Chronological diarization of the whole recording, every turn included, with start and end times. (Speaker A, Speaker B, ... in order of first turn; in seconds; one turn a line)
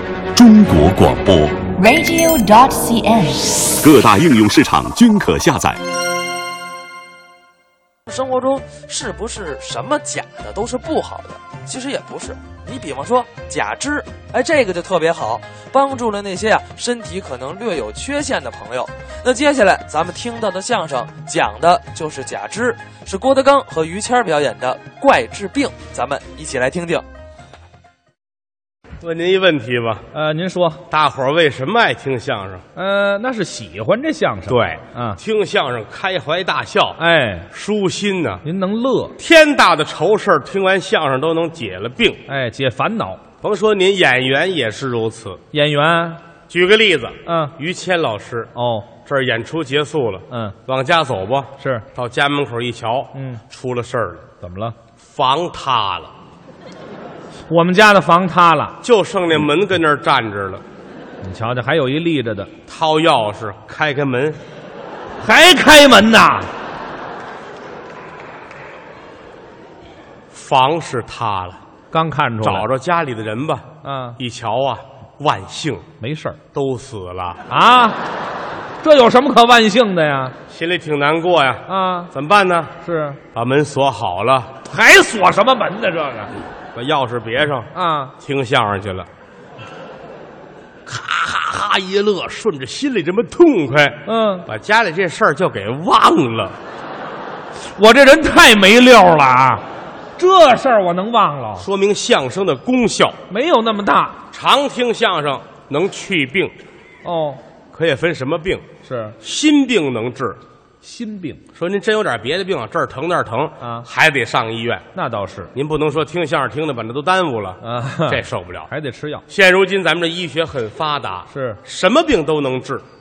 Speaker A: 0.3-1.7
Speaker B: 1.7-3.7
Speaker A: 3.8-5.8
Speaker C: 8.1-27.0
Speaker D: 29.0-30.1
Speaker E: 30.1-30.8
Speaker D: 30.9-32.6
Speaker E: 32.8-35.2
Speaker D: 34.5-37.0
Speaker E: 37.0-37.5
Speaker D: 37.5-38.4
Speaker E: 38.4-39.2
Speaker D: 39.2-42.2
Speaker E: 42.3-43.2
Speaker D: 43.4-45.4
Speaker E: 45.5-46.2
Speaker D: 46.5-48.5
Speaker E: 47.3-47.5
Speaker E: 48.5-48.9
Speaker D: 49.1-54.2
Speaker E: 50.3-50.6
Speaker E: 51.6-51.9
Speaker E: 53.1-53.4
Speaker E: 54.4-54.8
Speaker D: 55.1-56.1
Speaker E: 57.5-58.8
Speaker D: 58.8-60.6
Speaker E: 61.2-62.5
Speaker D: 62.7-64.4
Speaker E: 65.2-66.5
Speaker D: 70.3-71.6
Speaker E: 71.9-72.7
Speaker D: 72.4-75.8
Speaker E: 73.8-74.2
Speaker E: 76.0-76.4
Speaker D: 76.5-77.4
Speaker E: 77.5-78.0
Speaker E: 78.8-80.4
Speaker D: 80.5-82.7
Speaker E: 81.7-82.1
Speaker E: 82.8-83.2
Speaker D: 83.3-84.5
Speaker E: 84.7-86.3
Speaker D: 86.8-89.1
Speaker E: 87.7-88.1
Speaker D: 90.9-96.5
Speaker E: 94.1-94.5
Speaker E: 97.6-99.6
Speaker E: 100.2-101.7
Speaker D: 101.6-103.2
Speaker E: 103.3-104.2
Speaker D: 104.3-106.5
Speaker E: 107.0-107.4
Speaker D: 107.7-108.7
Speaker E: 108.8-109.2
Speaker D: 109.2-110.4
Speaker E: 110.8-111.4
Speaker D: 111.5-114.8
Speaker E: 113.6-113.9
Speaker E: 115.0-115.5
Speaker D: 115.5-118.7
Speaker E: 117.6-119.2
Speaker D: 119.3-122.8
Speaker E: 121.3-121.6